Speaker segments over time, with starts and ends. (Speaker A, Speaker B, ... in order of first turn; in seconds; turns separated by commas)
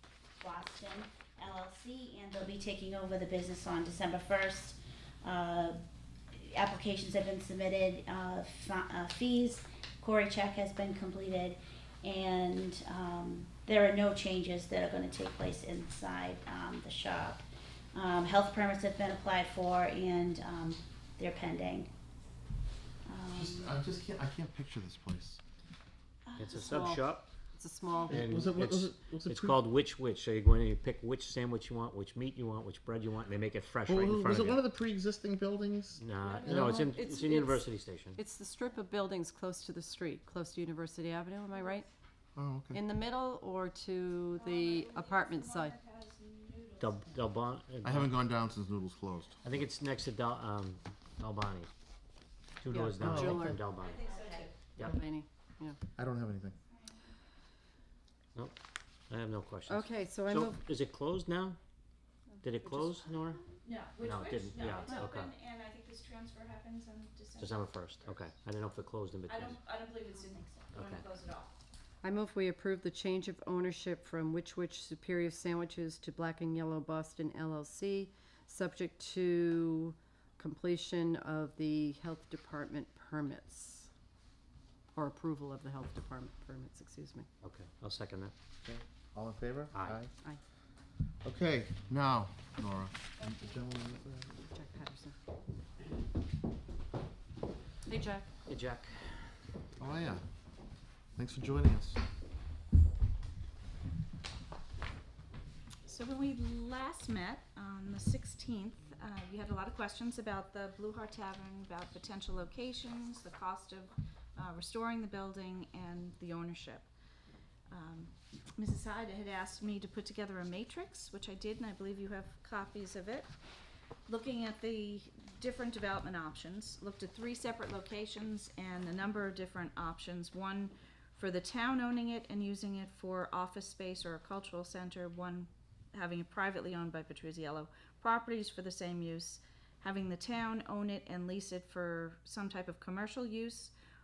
Speaker A: 0.4-5.8, Speaker A: 6.3-21.9, Speaker A: 23.0-23.8, Speaker B: 23.3-25.4, Speaker A: 26.2-26.9, Speaker C: 26.4-27.3, Speaker D: 26.5-28.2, Speaker B: 28.1-29.6, Speaker C: 28.1-34.6, Speaker B: 33.9-36.8, Speaker C: 36.0-38.2, Speaker E: 36.2-36.9, Speaker D: 36.7-37.6, Speaker D: 38.1-41.9, Speaker B: 42.4-42.8, Speaker D: 42.7-45.8, Speaker E: 44.4-47.0, Speaker C: 46.8-48.2, Speaker B: 47.8-49.4, Speaker C: 49.4-51.7, Speaker C: 52.6-54.0, Speaker D: 52.7-53.6, Speaker B: 53.0-53.6, Speaker E: 53.8-54.5, Speaker A: 54.0-54.5, Speaker D: 54.8-55.8, Speaker B: 56.0-56.6, Speaker E: 56.7-57.0, Speaker C: 59.1-61.6, Speaker D: 59.7-60.6, Speaker C: 62.4-63.4, Speaker E: 63.6-67.7, Speaker C: 64.0-65.3, Speaker C: 67.4-69.6, Speaker E: 69.3-71.5, Speaker C: 70.7-71.1, Speaker D: 72.0-83.9, Speaker D: 84.9-87.3, Speaker C: 87.4-88.3, Speaker B: 88.6-90.1, Speaker C: 89.7-90.0, Speaker B: 91.2-94.4, Speaker D: 94.5-95.1, Speaker D: 97.9-98.3, Speaker C: 98.5-99.1, Speaker B: 99.8-100.2, Speaker B: 101.2-102.0, Speaker E: 105.9-116.9, Speaker E: 117.7-123.3, Speaker E: 124.1-143.7